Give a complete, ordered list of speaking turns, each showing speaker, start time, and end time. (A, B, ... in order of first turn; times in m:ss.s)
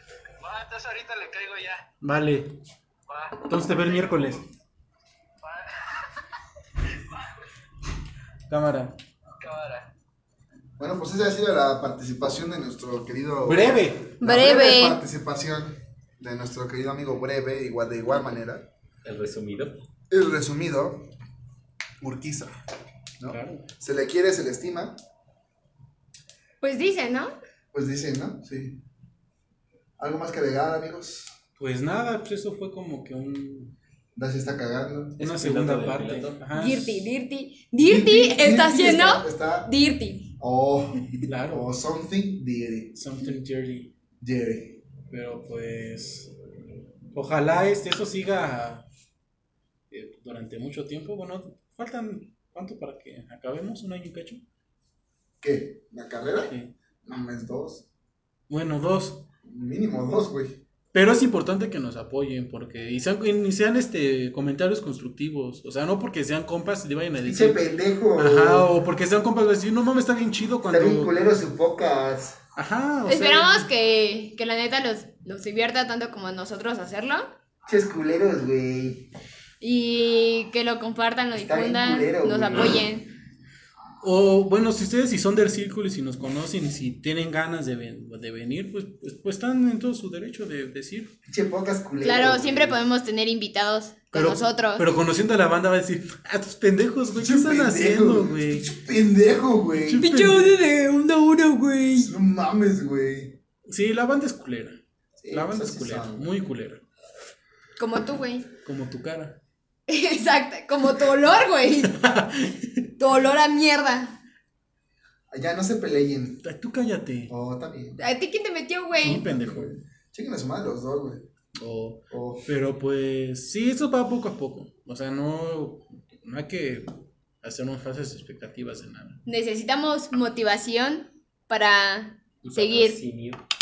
0:00.4-0:01.8 A
0:02.0-0:02.5 B
0:03.1-0:04.2 A
0:03.4-0:04.4 B
0:05.4-0:05.8 A
0:08.5-0:08.9 B
0:09.3-0:09.9 A
0:10.8-0:18.6 C
0:13.5-0:14.1 B
0:14.2-0:15.0 D
0:19.0-0:19.7 E
0:20.1-0:21.0 C
0:22.0-0:22.5 C
0:23.2-0:25.0 C
0:23.2-0:23.6 B
0:26.6-0:27.3 D
0:27.7-0:28.8 C
0:30.0-0:31.3 C
0:31.6-0:33.7 B
0:34.1-0:35.2 C
0:35.2-0:36.4 E
0:35.2-0:37.1 B
0:36.5-0:40.3 D
0:37.8-0:39.7 C
0:40.4-0:42.9 C
0:41.3-0:41.6 B
0:42.9-0:43.9 B
0:44.2-0:44.8 C
0:45.1-0:46.3 B
0:47.1-0:48.8 B
0:49.9-0:54.4 B
0:55.4-0:57.8 C
0:58.5-0:59.2 B
0:59.4-1:00.6 C
1:00.9-1:07.6 B
1:07.2-1:08.7 C
1:08.2-1:11.1 B
1:10.7-1:12.4 C
1:12.6-1:13.6 B
1:13.1-1:17.3 D
1:17.6-1:19.1 C
1:19.6-1:23.1 D
1:21.3-1:22.8 C
1:24.0-1:31.1 B
1:31.2-1:32.8 C
1:32.0-1:34.8 D
1:34.1-1:38.7 B
1:37.2-1:40.0 C
1:39.9-1:40.6 B
1:40.0-1:42.1 D
1:42.0-1:43.4 C
1:43.7-1:44.8 B
1:45.2-1:46.3 C
1:45.3-1:46.8 B
1:47.8-1:48.5 D
1:48.6-1:49.4 B
1:49.9-1:51.9 D
1:51.8-1:52.9 B
1:53.0-1:54.1 D
1:55.3-1:56.4 C
1:56.4-1:57.3 B
1:57.3-1:58.0 C
1:58.0-1:59.2 D
1:59.0-1:59.7 B
1:59.0-2:01.2 C
2:01.6-2:06.9 B
2:02.1-2:02.4 C
2:07.4-2:09.2 B
2:09.2-2:13.0 D
2:12.4-2:13.4 E